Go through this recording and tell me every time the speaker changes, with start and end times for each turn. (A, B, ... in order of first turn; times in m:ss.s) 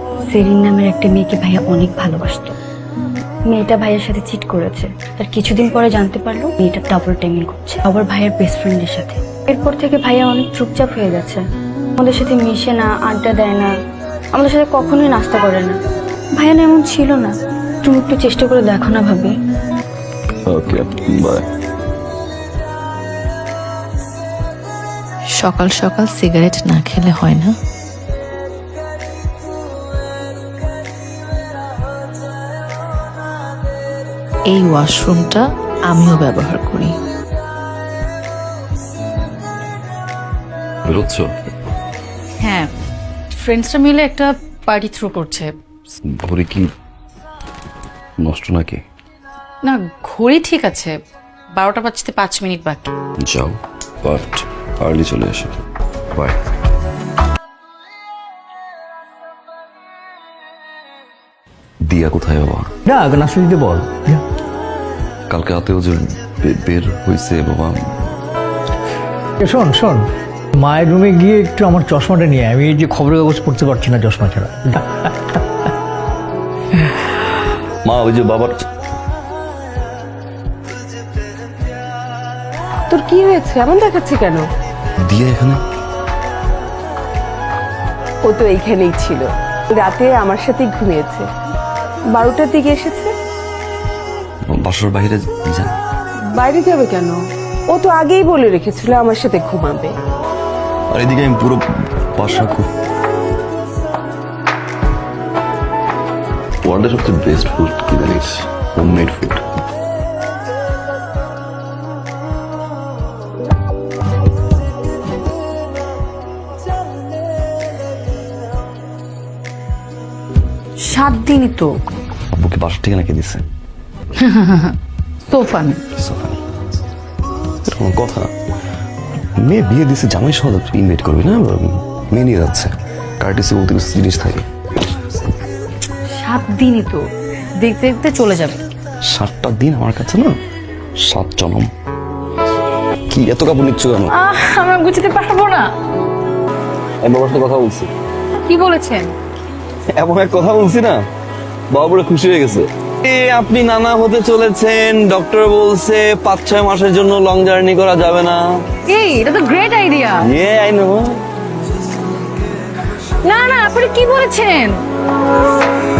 0:00.3-0:02.6 A
0:03.5-0:11.4 A
0:12.0-0:13.7 A
0:14.3-0:15.8 A
0:16.4-0:19.3 A
0:20.5-0:21.4 B
0:25.4-0:27.6 C
0:34.5-0:37.0 C
0:40.8-0:41.3 B
0:42.4-0:42.7 D
0:43.3-0:45.5 D
0:46.0-0:46.7 B
0:48.2-0:48.8 B
0:49.6-0:51.0 D
0:51.5-0:52.9 D
0:53.2-0:55.5 B
0:56.1-0:56.4 B
1:01.8-1:02.7 B
1:02.9-1:04.2 E
1:05.3-1:07.8 B
1:09.4-1:10.0 E
1:10.6-1:15.1 E
1:17.9-1:18.6 B
1:22.9-1:24.4 F
1:25.1-1:25.6 B
1:28.3-1:29.2 F
1:29.8-1:31.2 F
1:32.2-1:33.1 F
1:34.5-1:35.8 B
1:36.4-1:37.2 F
1:37.7-1:39.9 F
1:40.9-1:41.6 B
1:42.1-1:42.7 B
1:46.6-1:49.4 B
2:00.8-2:01.7 D
2:02.4-2:03.4 B
2:04.2-2:04.8 D
2:05.3-2:05.8 D
2:06.0-2:06.4 B
2:07.6-2:08.3 B
2:09.4-2:14.4 B
2:16.2-2:17.0 D
2:17.6-2:18.6 D
2:19.1-2:20.3 B
2:21.0-2:21.7 B
2:23.1-2:24.1 B
2:24.1-2:25.7 D
2:27.0-2:27.9 B
2:28.4-2:29.1 D
2:30.0-2:31.0 B
2:31.7-2:38.4 B
2:38.9-2:40.3 D
2:40.3-2:41.0 B
2:43.3-2:44.8 D